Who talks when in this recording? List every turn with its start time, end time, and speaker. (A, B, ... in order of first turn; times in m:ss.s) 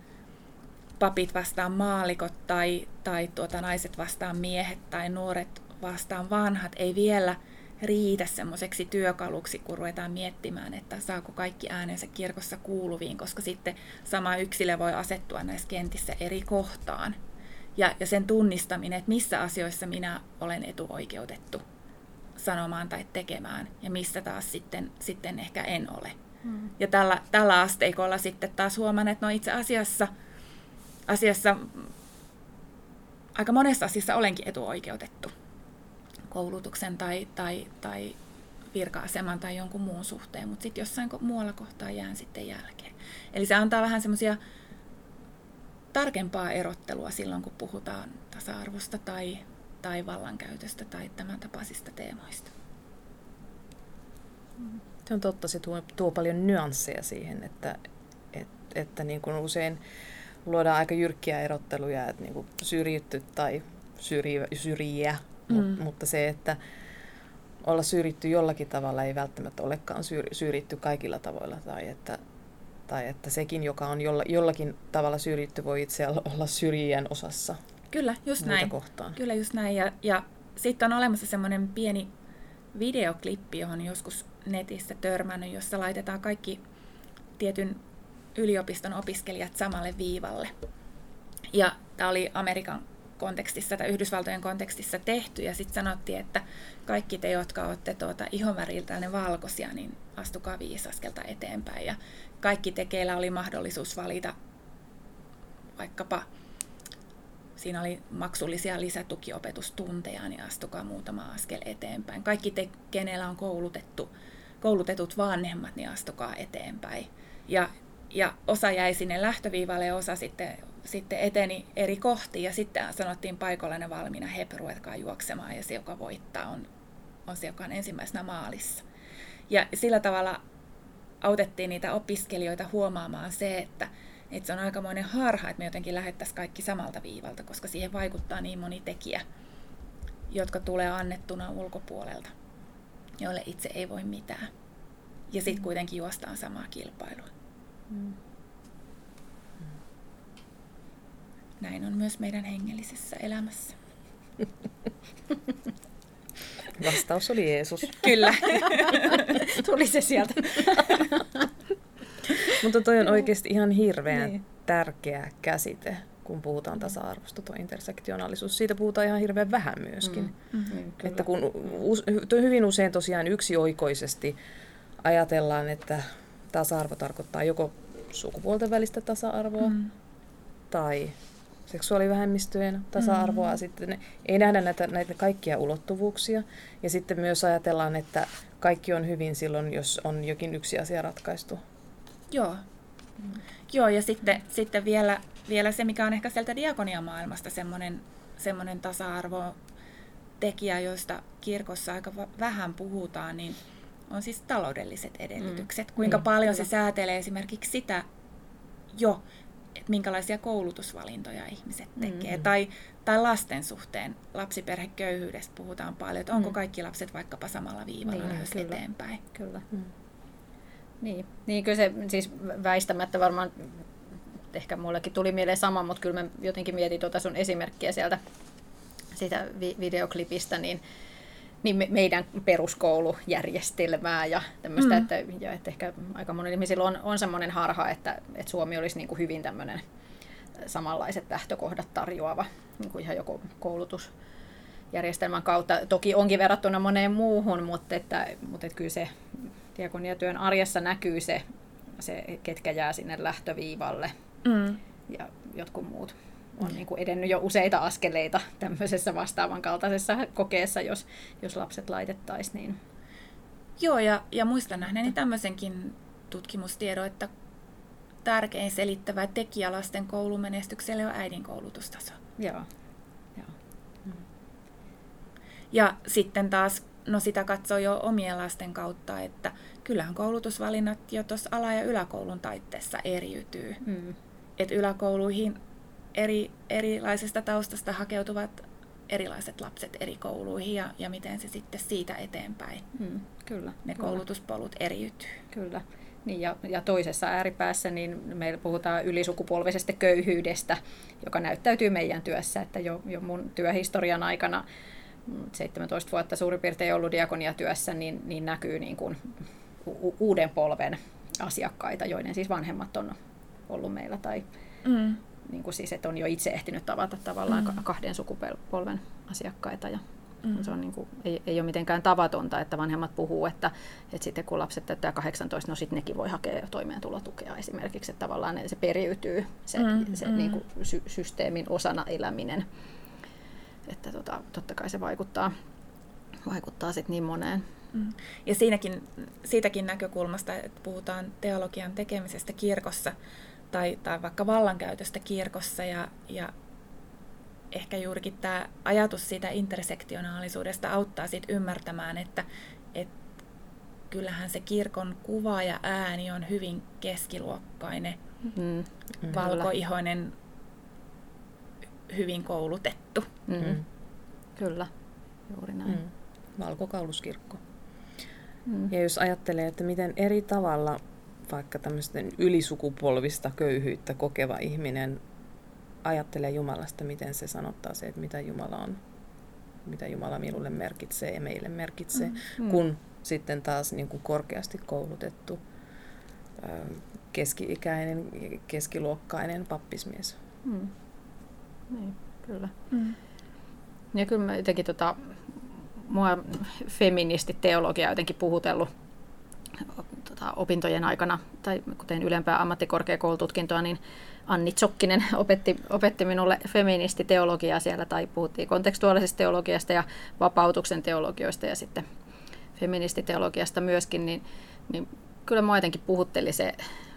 0:01.0-0:17.2 A
0:17.8-0:21.6 A
0:22.4-0:26.2 A
0:26.4-0:26.7 B
0:26.8-0:30.1 A
0:31.1-0:31.9 A
0:33.4-0:35.3 A
0:36.3-0:38.2 A
0:38.7-0:44.4 A
0:45.9-0:52.5 A
0:55.1-0:57.8 C
0:58.3-0:59.8 C
1:00.4-1:06.6 C
1:07.6-1:12.2 C
1:12.9-1:17.6 C
1:17.9-1:22.1 A
1:18.4-1:19.2 C
1:22.7-1:26.6 A
1:27.4-1:27.8 A
1:28.4-1:30.5 A
1:31.5-1:44.4 A
1:45.8-1:46.2 A
1:47.6-1:54.1 A
1:54.6-2:06.7 A
2:07.3-2:08.8 A
2:09.5-2:10.4 A
2:11.2-2:19.2 A
2:20.3-2:22.3 A
2:23.2-2:24.5 A
2:25.3-2:27.3 A
2:31.6-2:33.8 A
2:36.8-2:38.4 C
2:38.0-2:39.4 A
2:38.6-2:41.5 B
2:42.5-2:50.3 C
2:50.0-2:51.2 B
2:51.0-2:54.4 C
2:55.0-2:59.8 C
3:00.7-3:01.2 C
3:01.7-3:11.6 C
3:03.1-3:03.5 A
3:12.3-3:12.6 A
3:13.7-3:19.6 A
3:20.4-3:23.6 A
3:24.1-3:28.1 A
3:25.4-3:26.3 B
3:28.9-3:29.2 A
3:29.9-3:39.2 A
3:38.1-3:38.8 B
3:39.3-3:39.6 B
3:41.0-3:43.9 B
3:44.5-3:48.2 B
3:49.1-3:50.8 B
3:51.6-3:59.8 B
4:00.6-4:04.1 B
4:04.9-4:11.4 B
4:12.0-4:14.1 B
4:14.4-4:14.8 A
4:15.1-4:22.8 B
4:23.8-4:27.3 A
4:28.2-4:32.2 A
4:32.4-4:32.7 B
4:35.7-4:43.8 A
4:43.8-4:44.2 B
4:44.6-4:45.6 A
4:46.1-4:52.9 A
4:53.0-4:54.2 B
4:53.8-4:55.4 A
4:55.5-5:04.6 B
5:05.3-5:09.3 B
5:09.8-5:13.2 B
5:13.7-5:14.5 B
5:14.8-5:15.2 A
5:15.4-5:20.0 B
5:20.5-5:32.7 B
5:29.8-5:30.6 A
5:33.9-5:35.5 B
5:36.4-5:37.6 B
5:37.9-5:43.2 A
5:43.7-5:46.5 A
5:47.7-5:53.1 A
5:54.1-5:58.2 A
5:58.5-5:59.7 B
5:59.3-6:00.3 A
6:02.1-6:03.4 A
6:03.5-6:03.8 B
6:04.6-6:04.9 B
6:05.5-6:06.0 B
6:05.9-6:07.6 C
6:08.7-6:08.9 B
6:08.9-6:15.2 C
6:16.0-6:19.0 C
6:19.8-6:25.6 C
6:26.6-6:30.4 C
6:30.6-6:30.9 B
6:31.9-6:32.7 B
6:32.9-6:33.2 A
6:34.1-6:38.9 B
6:39.9-6:52.1 B
6:52.8-6:56.8 B